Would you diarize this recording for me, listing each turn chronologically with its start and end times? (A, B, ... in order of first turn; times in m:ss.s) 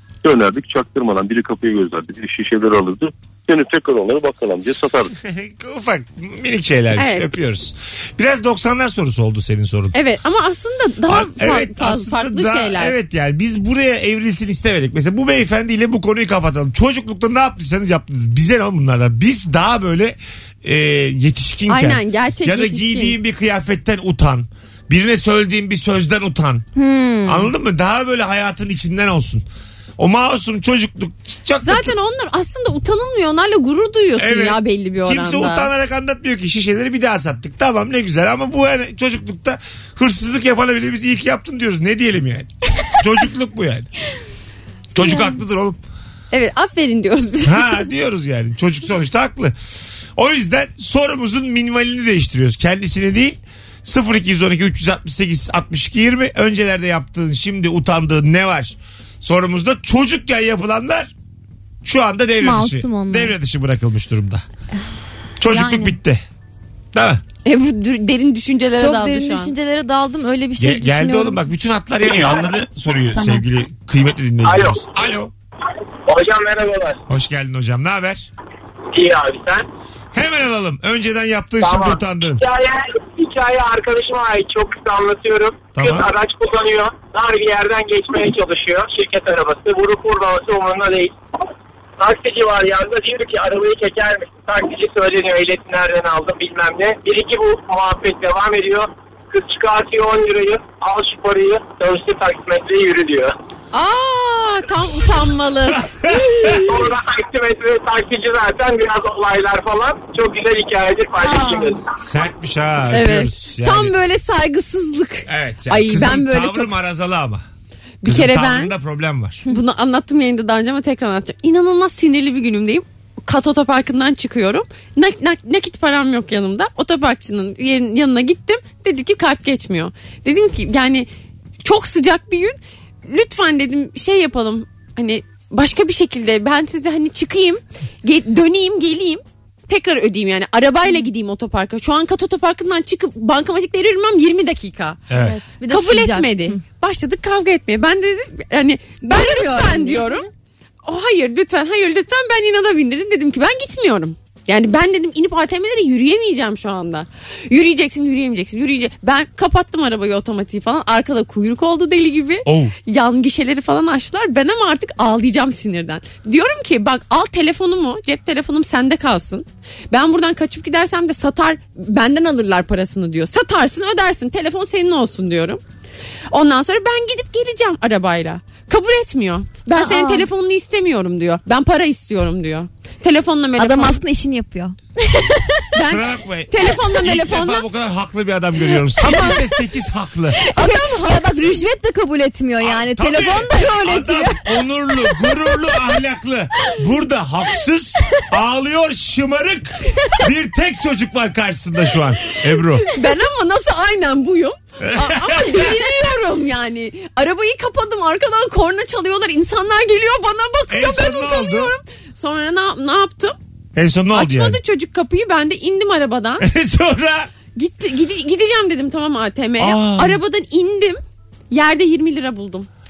0:00.2-0:05.1 A
0:05.2-0:09.9 B
0:07.0-0:07.3 C
0:09.9-0:13.0 C
0:11.0-0:26.6 B
0:21.7-0:23.2 C
0:26.8-0:27.5 D
0:27.2-0:29.4 B
0:30.0-0:31.9 B
0:31.6-0:35.7 C
0:34.2-0:43.9 B
0:44.9-0:45.8 B
0:46.3-0:47.8 C
0:47.4-0:49.6 B
0:50.2-1:01.1 B
1:01.8-1:04.4 B
1:02.4-1:03.3 D
1:05.4-1:06.2 B
1:05.4-1:06.0 D
1:06.9-1:07.2 B
1:07.4-1:09.5 C
1:08.8-1:11.4 D
1:10.6-1:15.3 B
1:14.4-1:14.7 E
1:16.1-1:17.0 E
1:17.1-1:18.3 B
1:18.9-1:19.7 E
1:20.1-1:22.4 B
1:21.6-1:31.1 E
1:25.7-1:26.1 B
1:32.0-1:43.3 E
1:43.7-1:46.7 C
1:46.6-1:51.8 E
1:51.2-1:51.7 C
1:52.0-1:53.9 B
1:52.9-1:56.7 C
1:55.3-1:57.4 B
1:58.0-1:58.7 C
1:58.0-1:59.4 B
1:59.5-2:11.1 C
2:11.6-2:25.0 C
2:25.1-2:25.4 B
2:25.1-2:26.6 D
2:25.7-2:30.2 C
2:29.0-2:30.2 D
2:30.8-2:55.6 C
2:42.4-2:42.7 B
2:56.3-3:04.0 C
2:59.7-3:00.3 D
3:03.6-3:05.7 D
3:05.7-3:07.6 C
3:05.8-3:10.4 B
3:09.0-3:09.4 C
3:10.4-3:14.4 D
3:10.5-3:11.6 C
3:12.6-3:22.8 B
3:22.8-3:33.4 C
3:24.8-3:25.6 B
3:30.7-3:31.7 B
3:33.7-3:34.6 B
3:34.1-3:36.5 C
3:36.4-3:37.3 B
3:37.5-3:41.0 C
3:39.6-3:40.2 B
3:41.5-3:42.7 C